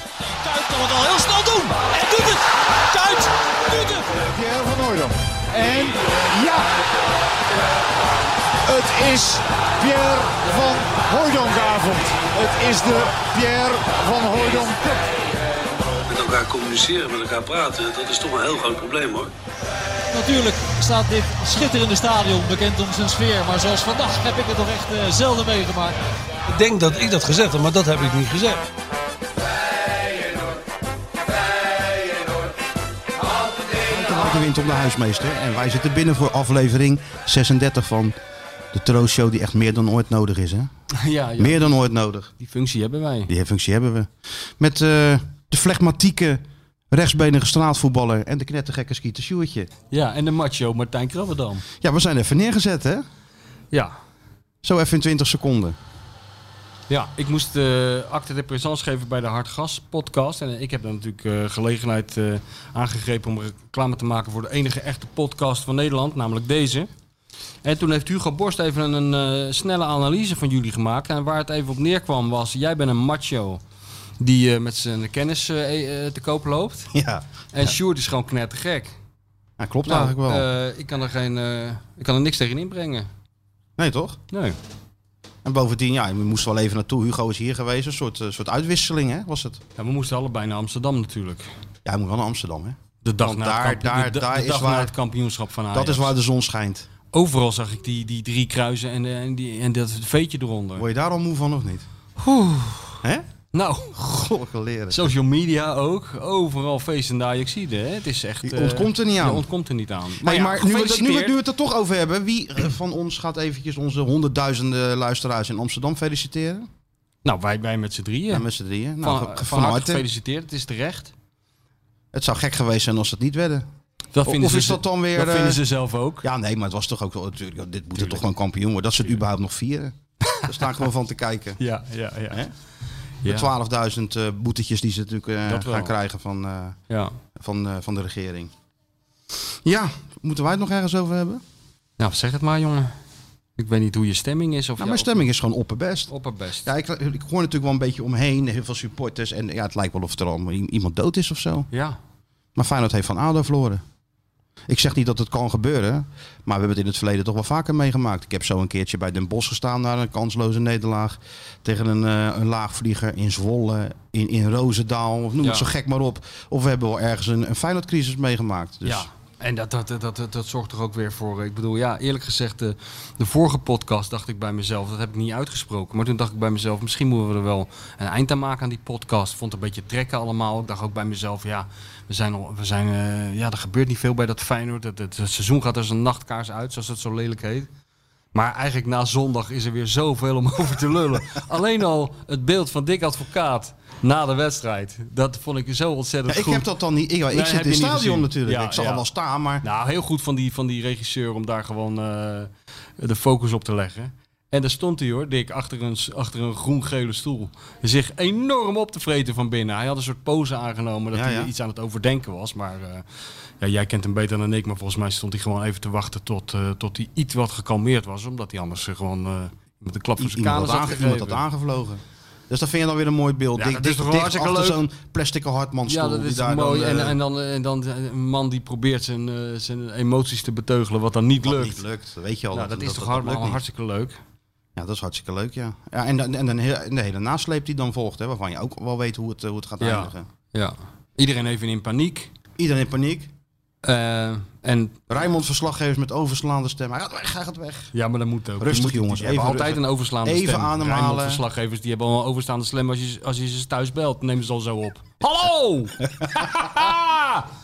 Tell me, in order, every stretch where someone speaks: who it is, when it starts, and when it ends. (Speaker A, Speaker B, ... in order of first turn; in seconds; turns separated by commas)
Speaker A: 0.3-4.1, Speaker B: 4.3-6.7, Speaker B: 8.7-15.1, Speaker C: 16.1-19.3, Speaker A: 20.1-25.9, Speaker C: 26.5-28.6, Speaker D: 33.8-38.2, Speaker D: 38.7-40.7, Speaker E: 40.9-41.8, Speaker D: 41.4-42.3, Speaker E: 42.4-43.3, Speaker D: 43.3-49.7, Speaker E: 49.9-51.6, Speaker D: 51.8-53.0, Speaker D: 54.6-55.8, Speaker E: 56.9-66.9, Speaker E: 67.6-73.6, Speaker E: 74.2-76.9, Speaker D: 76.9-77.7, Speaker E: 77.5-79.0, Speaker D: 79.6-80.5, Speaker E: 79.9-83.1, Speaker D: 83.8-84.2, Speaker D: 85.5-89.6, Speaker E: 89.8-91.5, Speaker D: 91.8-94.9, Speaker E: 93.0-96.1, Speaker D: 95.7-96.9, Speaker E: 97.1-100.9, Speaker D: 100.8-101.9, Speaker E: 102.2-103.0, Speaker E: 103.5-104.0, Speaker D: 103.9-105.1, Speaker E: 104.9-111.4, Speaker D: 108.4-109.5, Speaker D: 110.2-116.7, Speaker E: 117.2-118.5, Speaker D: 118.3-120.0, Speaker E: 119.0-121.1, Speaker D: 122.1-123.7, Speaker E: 124.2-126.3, Speaker D: 124.2-125.6, Speaker D: 126.2-131.6, Speaker E: 128.0-128.2, Speaker E: 130.3-130.8, Speaker E: 131.6-132.4, Speaker E: 133.2-133.5, Speaker D: 133.2-136.8, Speaker E: 135.5-135.9, Speaker E: 136.9-137.2, Speaker D: 137.4-138.5, Speaker D: 139.6-141.4, Speaker E: 142.0-142.9, Speaker E: 143.6-145.3, Speaker D: 144.8-146.1, Speaker E: 146.1-146.7, Speaker D: 146.6-151.7, Speaker E: 151.7-152.0, Speaker D: 152.6-153.8, Speaker D: 154.7-169.1, Speaker E: 165.4-165.7, Speaker E: 168.8-187.7, Speaker E: 188.3-196.7, Speaker D: 196.3-199.6, Speaker E: 197.3-199.1, Speaker E: 199.6-213.0, Speaker D: 211.1-211.5, Speaker E: 213.6-221.4, Speaker D: 220.2-227.2, Speaker E: 223.6-224.8, Speaker E: 225.9-231.8, Speaker D: 231.4-233.6, Speaker E: 232.5-234.2, Speaker D: 234.8-240.3, Speaker E: 239.8-242.3, Speaker D: 242.6-243.3, Speaker E: 243.8-245.1, Speaker D: 245.1-247.9, Speaker E: 247.9-257.5, Speaker D: 248.6-251.4, Speaker D: 256.0-256.7